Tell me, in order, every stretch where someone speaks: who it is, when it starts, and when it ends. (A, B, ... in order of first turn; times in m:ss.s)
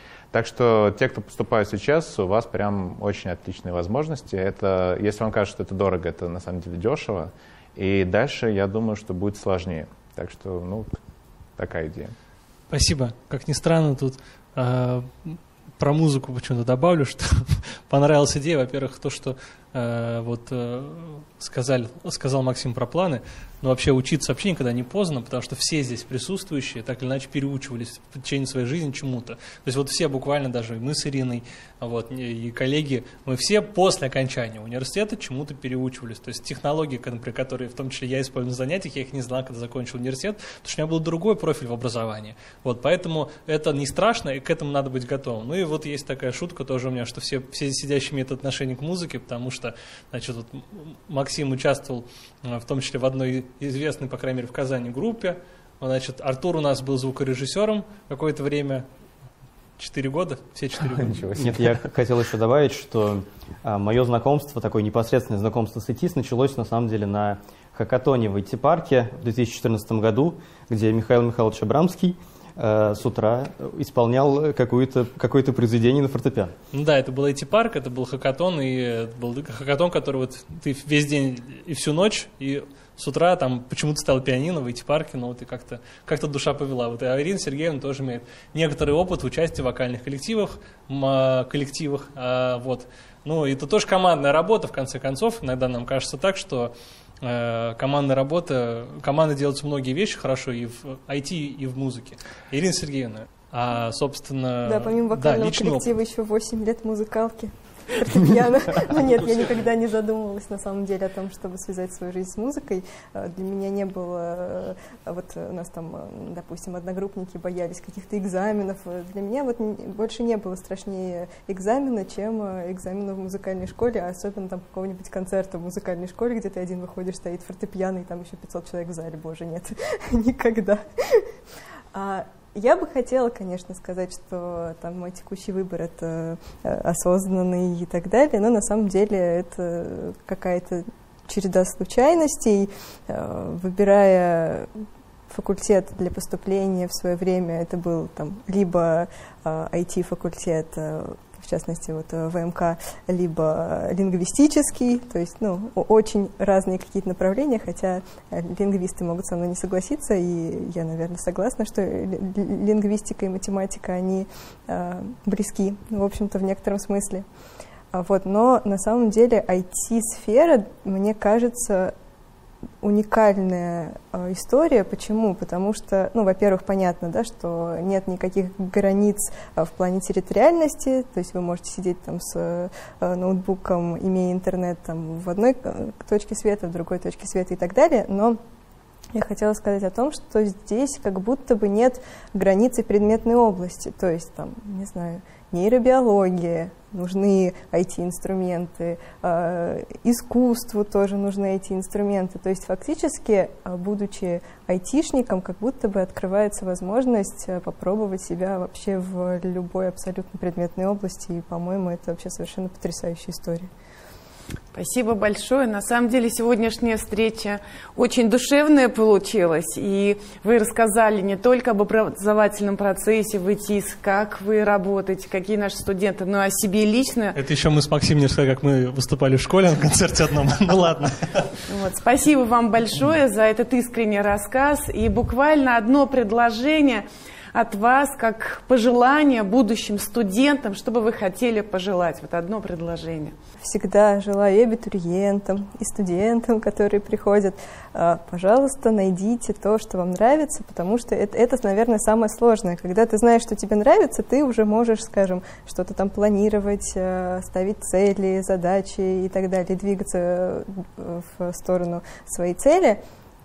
0:00.3-0:11.0 A
0:11.6-0:12.1 A
0:12.7-0:58.8 B
0:59.8-1:01.2 B
1:00.8-1:01.8 A
1:01.3-1:16.5 C
1:16.7-1:45.9 B
1:44.6-2:11.3 D
2:11.9-2:24.7 D
2:25.3-2:47.2 D
2:47.9-2:51.9 D
2:52.8-3:08.4 D
3:09.1-3:33.7 D
3:34.7-3:47.4 E
3:47.3-3:51.5 B
3:51.7-4:03.3 E
4:03.6-4:23.0 D